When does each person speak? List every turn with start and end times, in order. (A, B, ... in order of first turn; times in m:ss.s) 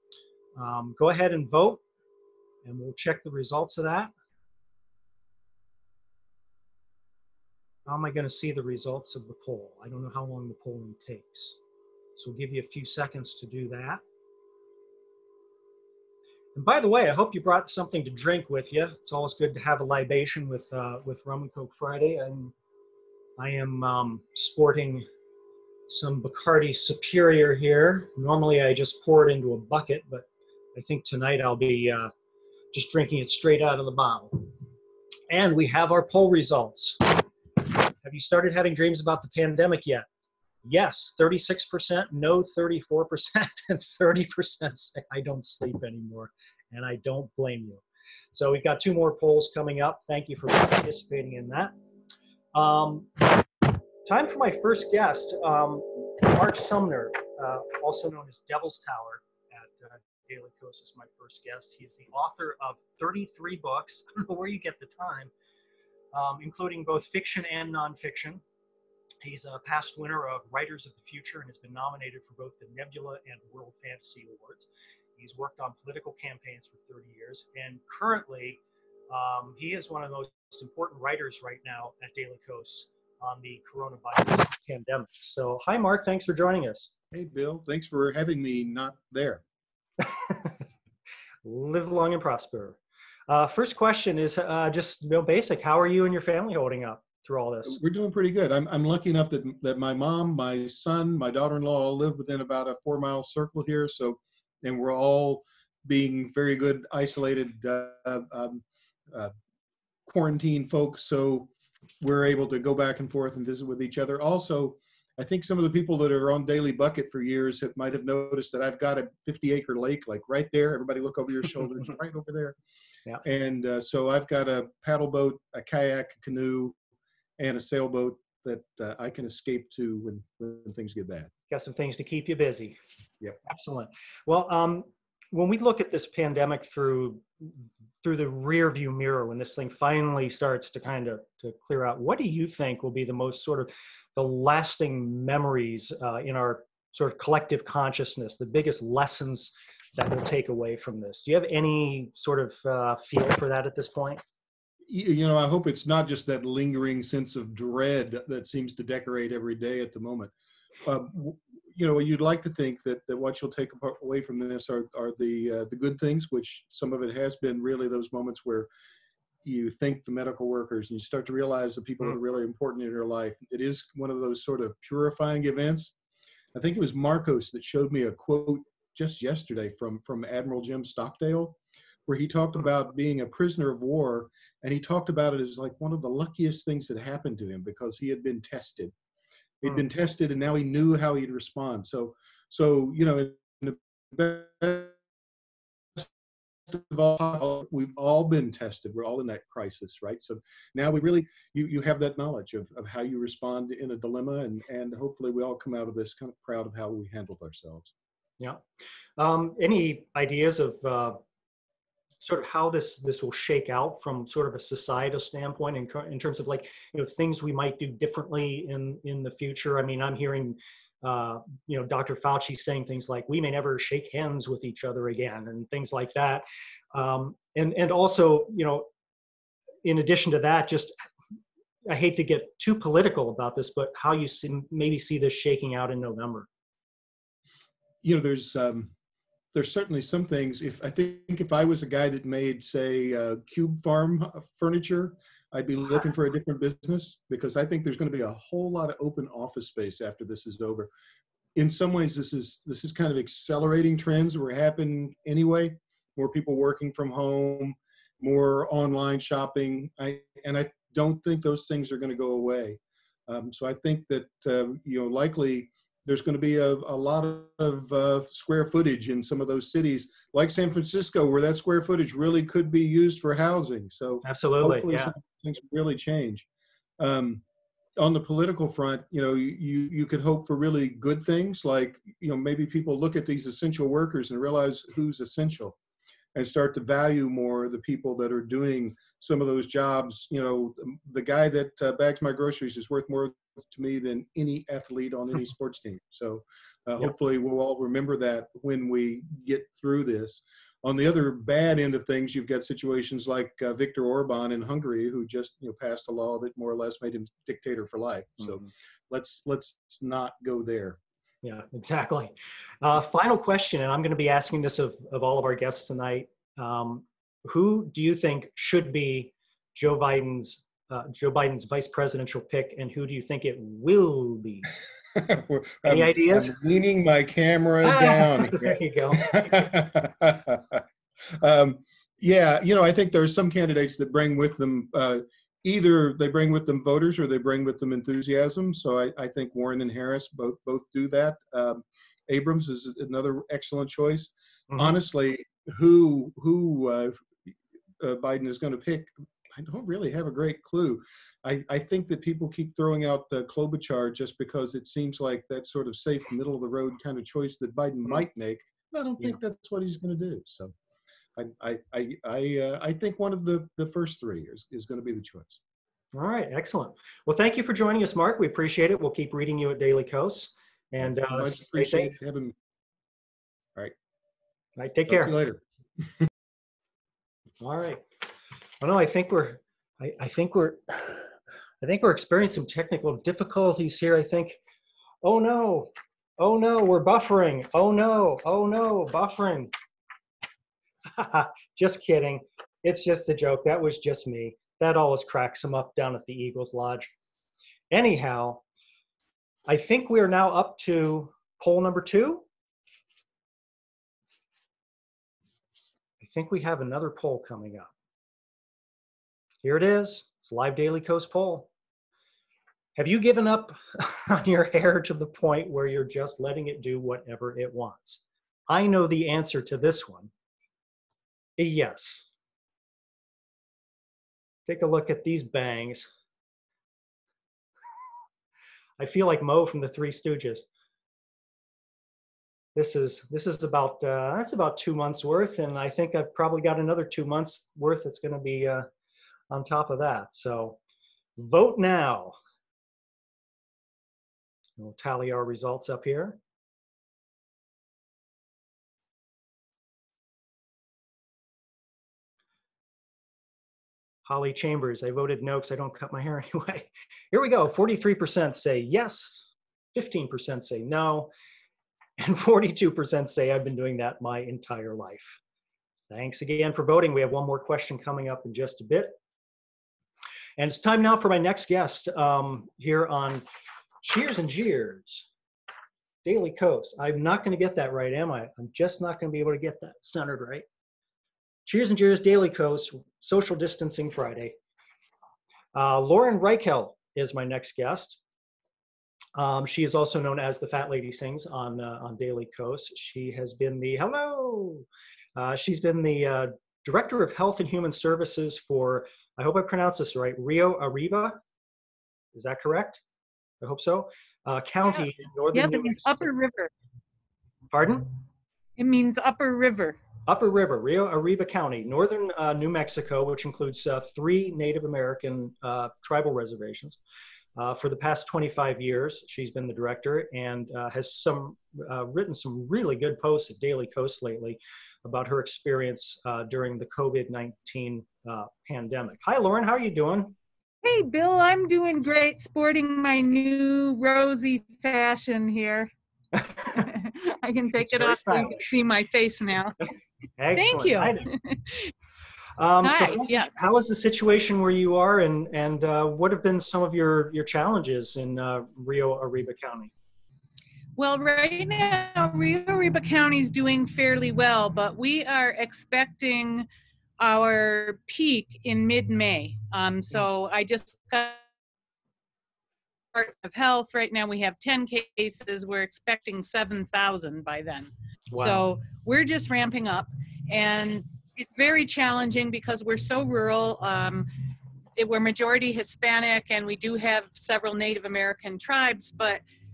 0:00.6-0:01.8 A
0:02.6-0:04.1 A
0:07.9-0:11.6 A
0:12.2-0:14.0 A
0:16.6-0:22.5 A
0:23.4-0:25.1 A
0:25.9-0:32.1 A
0:32.7-0:34.5 A
0:35.3-0:37.2 A
0:38.0-0:40.1 A
0:40.6-0:51.7 A
0:52.5-0:53.4 A
0:54.0-1:05.3 A
1:06.1-1:08.4 A
1:09.2-1:18.6 A
1:19.1-1:26.9 A
1:27.1-1:29.4 B
1:30.0-1:30.6 A
1:31.4-1:37.8 A
1:37.7-1:49.3 B
1:50.1-1:51.5 B
1:52.0-2:02.6 B
2:03.2-2:06.8 B
2:07.4-2:11.3 B
2:11.5-2:34.2 A
2:34.9-2:40.3 B
2:40.8-2:48.7 B
2:49.4-2:55.9 B
2:56.5-3:08.9 B
3:09.6-3:14.9 B
3:16.7-3:27.9 B
3:29.2-3:31.2 A
3:32.2-3:48.9 A
3:49.8-3:50.9 A
3:51.9-3:56.5 A
3:58.0-3:58.9 B
3:59.5-4:10.9 B
4:11.6-4:36.5 B
4:34.2-4:35.1 A
4:37.0-4:37.4 B
4:38.0-4:45.8 B
4:46.4-5:11.0 B
5:08.4-5:08.7 A
5:11.4-5:24.7 A
5:25.2-5:30.8 B
5:25.8-5:26.6 A
5:27.8-5:29.7 A
5:31.4-5:47.3 B
5:44.7-5:45.0 A
5:48.0-6:00.7 B
6:01.4-6:05.6 B
6:06.1-6:12.2 A
6:11.2-6:12.6 B
6:14.8-6:15.4 A
6:15.1-6:15.6 B
6:17.6-6:18.0 A
6:18.8-6:24.6 A
6:25.2-6:29.7 A
6:31.1-6:37.1 A
6:37.9-6:38.6 A
6:39.7-6:42.4 A
6:46.2-6:47.9 A
6:49.6-6:51.7 A
6:53.0-7:00.3 A
7:01.6-7:02.3 A
7:04.7-7:06.1 A
7:09.0-7:10.6 A
7:12.8-7:18.9 A
7:19.5-7:20.8 A
7:21.4-7:22.4 A
7:24.8-7:26.4 A
7:34.3-7:41.3 A
7:42.2-7:45.4 A
7:46.1-7:49.2 A
7:50.6-7:53.4 A
7:54.0-7:55.3 A
7:56.2-8:00.6 A
8:01.7-8:04.6 A
8:05.7-8:08.2 A
8:09.4-8:21.4 A
8:22.3-8:23.0 A
8:23.6-8:26.3 A
8:25.5-8:26.7 C
8:27.7-8:28.1 A
8:28.8-8:30.0 C
8:30.3-8:37.0 A
8:37.6-8:50.4 A
8:50.8-8:55.9 C
8:56.4-8:56.9 A
8:56.8-8:59.7 C
8:57.8-8:58.7 A
9:00.4-9:01.3 A
9:00.6-9:01.9 C
9:02.6-9:09.9 A
9:02.8-9:03.5 C
9:11.0-9:16.7 C
9:17.2-9:21.4 C
9:23.1-9:34.3 C
9:28.3-9:28.6 A
9:35.0-9:39.4 C